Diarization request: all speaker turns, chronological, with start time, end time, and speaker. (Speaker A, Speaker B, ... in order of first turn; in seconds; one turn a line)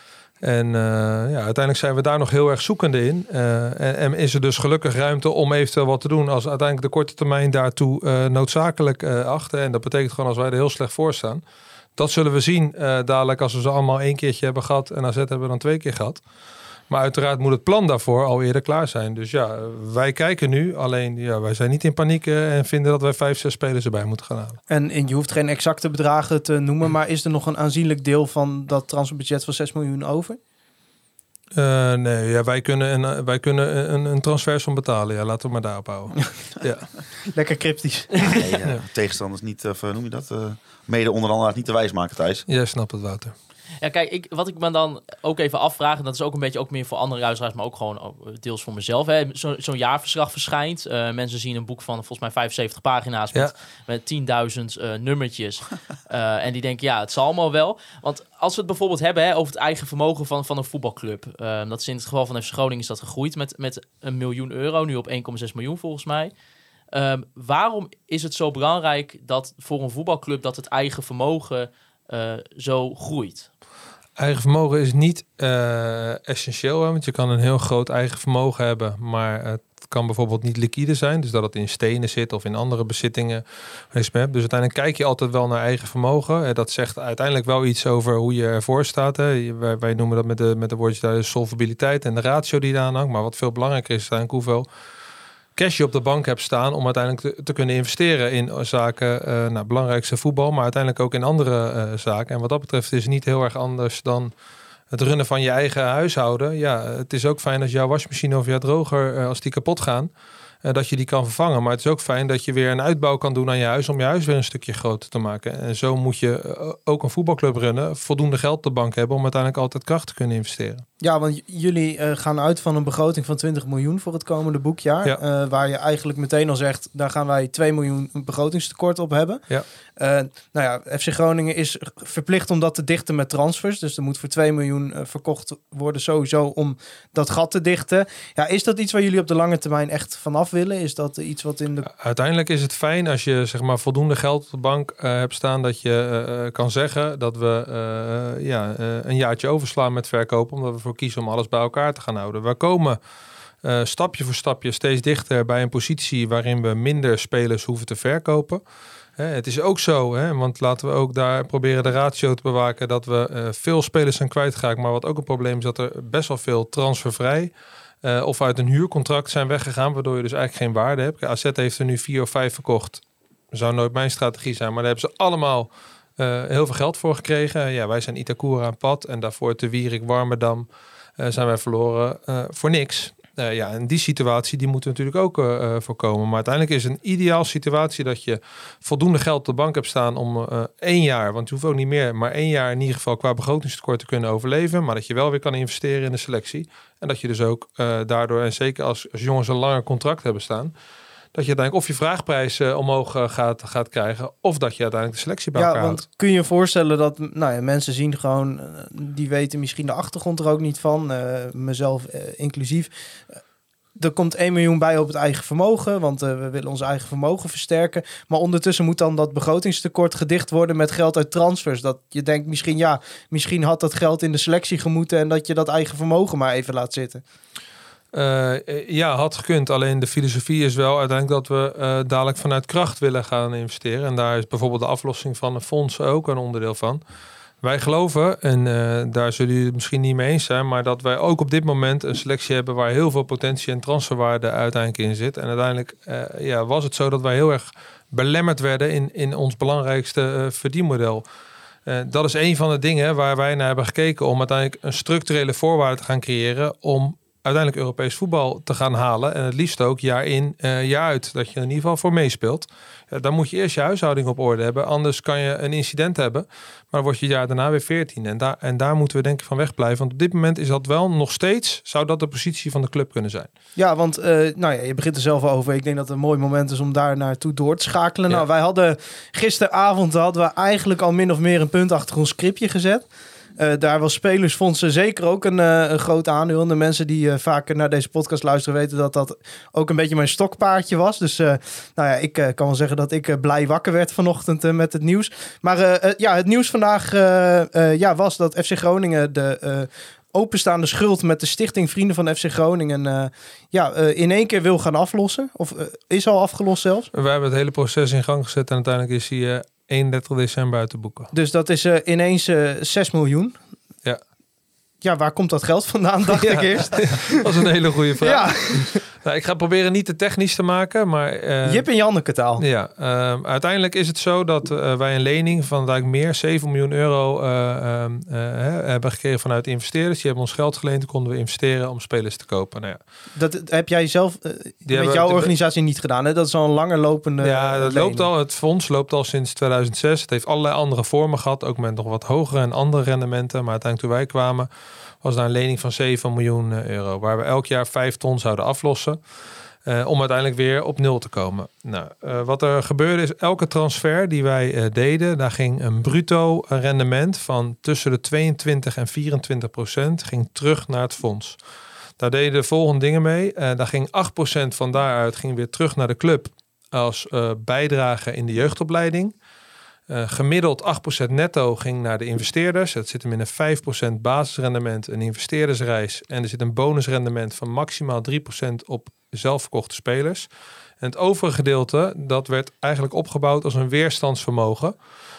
Speaker A: 0.4-11.4
Speaker A: 12.0-16.2
Speaker A: 16.9-24.6
Speaker B: 24.7-30.4
Speaker A: 31.5-36.9
Speaker B: 37.3-38.2
Speaker C: 38.2-42.5
Speaker A: 42.5-43.3
Speaker D: 43.8-66.3
Speaker D: 66.9-73.5
Speaker A: 74.2-94.7
Speaker A: 95.5-104.3
Speaker A: 104.9-110.1
Speaker A: 110.6-120.8
Speaker B: 121.0-129.4
Speaker B: 130.0-141.9
Speaker A: 141.9-153.0
Speaker A: 153.6-158.6
Speaker A: 159.2-167.5
Speaker A: 168.0-173.0
Speaker A: 173.5-180.7
Speaker A: 181.2-200.7
Speaker A: 201.3-206.0
Speaker B: 205.5-212.9
Speaker B: 213.9-227.2
Speaker A: 228.1-237.0
Speaker A: 237.6-251.2
Speaker A: 251.9-273.5
Speaker B: 273.8-283.1
Speaker B: 283.6-307.1
Speaker A: 307.1-311.3
Speaker B: 311.3-313.6
Speaker B: 315.0-317.5
Speaker A: 316.4-321.8
Speaker B: 318.2-319.0
Speaker B: 321.6-322.6
Speaker A: 322.6-333.0
Speaker B: 333.4-338.3
Speaker A: 334.9-335.5
Speaker A: 337.4-344.7
Speaker A: 345.2-349.2
Speaker A: 349.9-361.6
Speaker A: 362.2-369.3
Speaker A: 370.1-380.5
Speaker A: 381.0-384.9